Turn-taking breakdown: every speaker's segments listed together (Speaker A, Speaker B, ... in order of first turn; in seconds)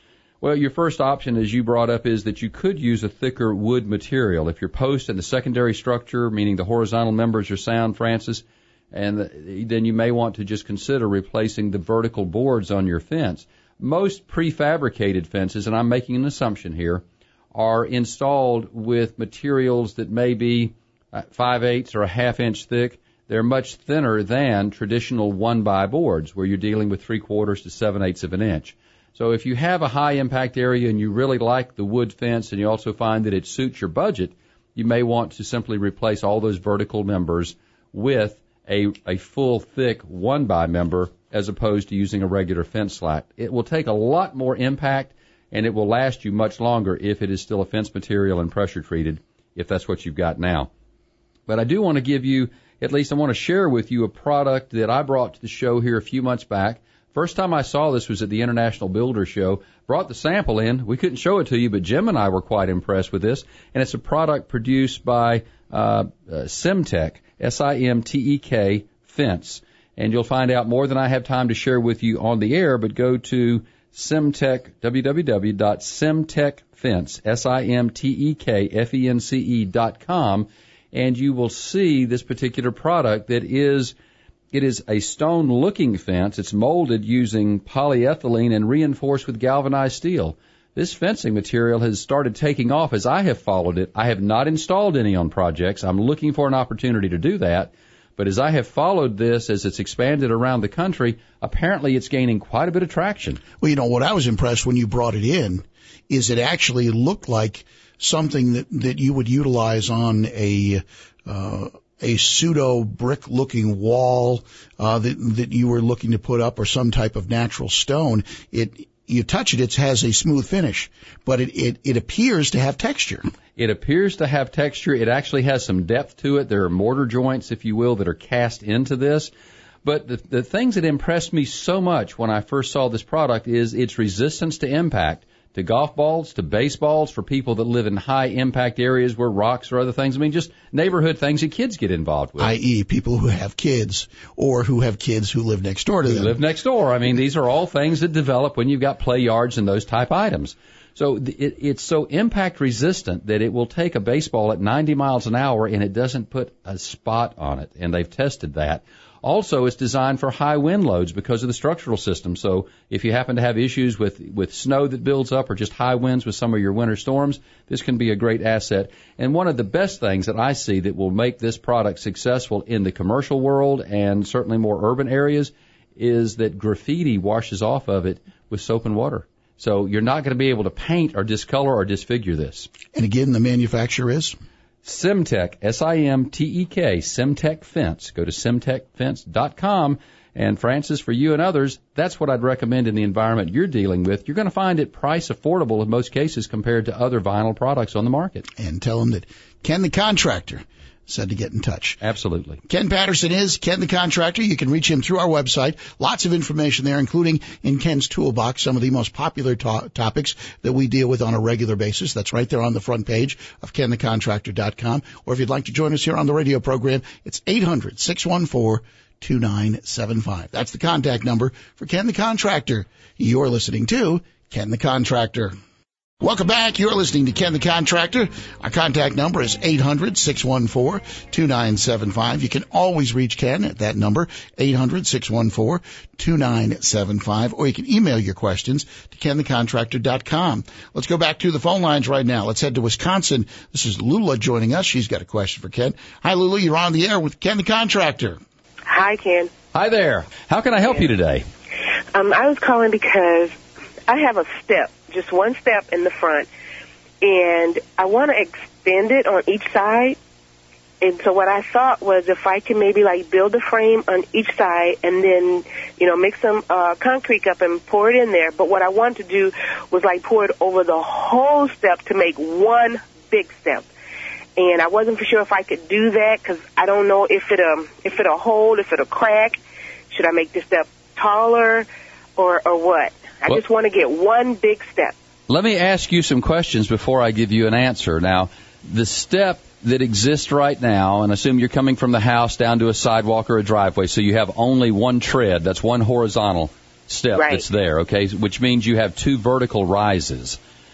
Speaker A: 0.4-17.0, 17.5-50.7, 51.5-83.9, 84.5-103.4, 123.6-129.3, 129.8-142.5, 146.1-182.7, 184.8-198.5, 202.0-202.6, 249.7-251.4, 285.5-300.6
Speaker B: 103.6-123.2, 142.4-146.4, 182.9-184.3, 198.6-202.0, 202.7-225.5, 226.2-248.4
Speaker C: 248.8-249.5, 252.1-256.5, 257.2-260.2, 261.0-273.9, 274.6-279.6, 280.1-285.1, 297.3-297.6